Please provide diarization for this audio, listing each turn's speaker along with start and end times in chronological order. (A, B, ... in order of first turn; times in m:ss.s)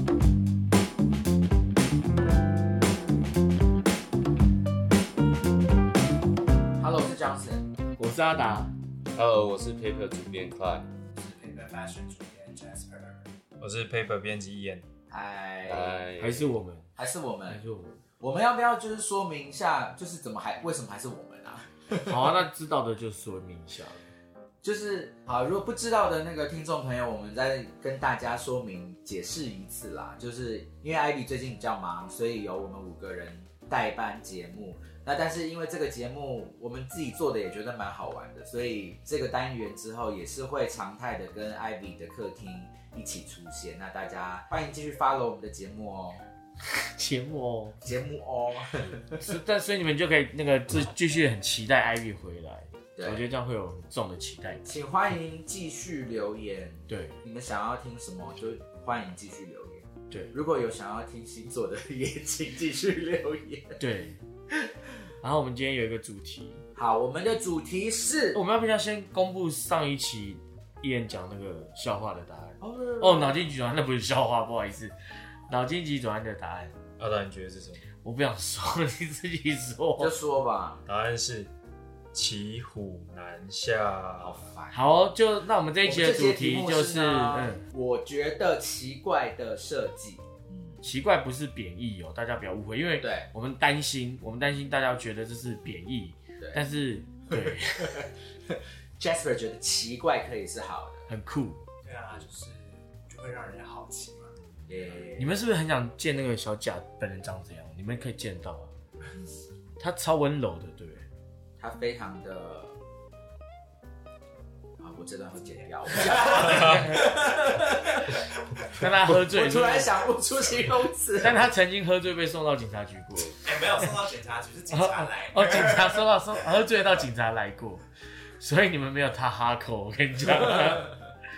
0:06.8-0:07.7 A
0:08.0-0:08.7 B
0:09.1-0:10.9 C
0:11.2-0:13.3 D
0:13.6-0:14.9 E
0:15.1-0:16.0 A
0:15.6-0:16.6 C
0:16.2-0:16.9 B
0:17.0-0:17.6 A
0:17.5-0:18.0 B
0:18.2-0:22.2 A
0:22.1-0:24.0 B
0:24.6-0:46.2 A
0:46.7-0:47.8 B
0:47.8-0:49.2 A
0:49.2-0:54.8 B
0:53.0-0:53.2 A
0:54.7-1:03.8 A
0:56.9-0:57.2 B
1:00.1-1:00.4 B
1:03.8-1:04.2 B
1:05.2-1:06.6 B
1:06.8-1:08.4 A
1:08.3-1:14.9 B
1:12.6-1:13.4 A
1:15.5-1:16.8 B
1:17.0-1:17.8 E
1:18.0-1:20.1 B
1:20.0-1:20.8 A
1:20.9-1:21.5 E
1:22.1-1:24.4 E
1:24.2-1:24.9 A
1:24.7-1:27.6 B
1:25.8-1:30.8 A
1:30.8-1:38.0 B
1:33.0-1:33.3 A
1:39.0-1:41.1 A
1:41.1-1:41.6 B
1:41.8-1:44.4 D
1:44.7-1:45.4 A
1:45.2-1:48.8 B
1:49.8-1:51.1 B
1:51.6-1:52.8 A
1:54.8-1:58.2 A
1:56.2-1:56.6 D
1:56.5-1:57.0 B
1:58.8-1:59.9 B
1:59.0-2:01.4 A
2:01.2-2:03.9 B
2:03.4-2:06.0 D
2:04.7-2:07.8 B
2:08.4-2:10.9 B